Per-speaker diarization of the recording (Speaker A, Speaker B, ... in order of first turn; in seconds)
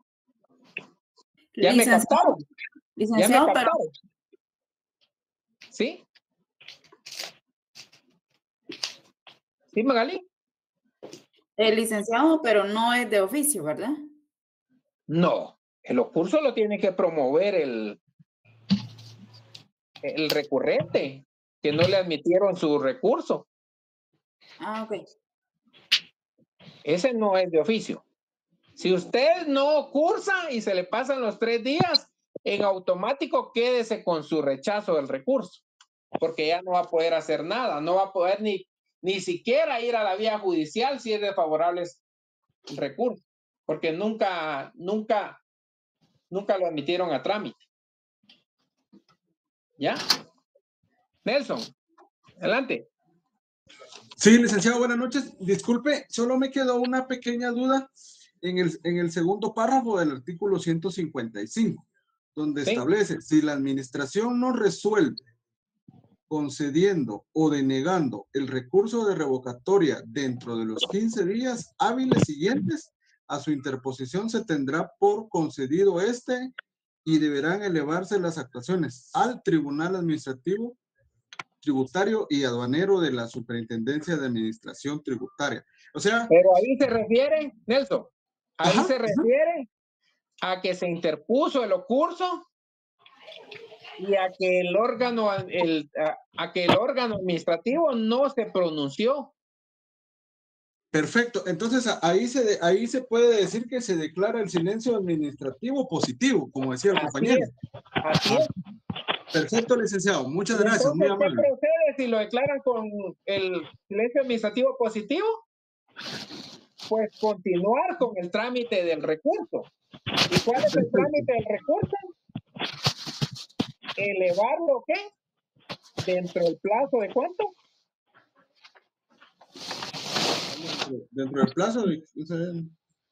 Speaker A: 1.6-2.3, 3.0-3.8, 11.6-14.0, 24.6-25.0
Speaker B: 1.6-2.4, 3.1-3.9, 5.7-6.0, 9.7-10.2, 15.1-18.0, 20.0-23.5, 26.8-28.0, 28.8-35.6, 36.2-42.0, 42.7-45.4, 46.3-47.6, 51.2-51.7, 52.4-52.9, 86.3-89.7, 90.4-92.4, 94.0-99.3, 106.9-108.5, 110.5-115.4, 116.9-119.7, 120.3-122.1, 124.0-125.0, 126.0-127.5
Speaker C: 54.2-57.9, 58.4-65.2, 66.3-76.5, 77.0-80.8, 81.6-86.3, 88.6-89.3, 100.9-107.5, 109.3-111.4, 120.7-121.2, 130.5-132.7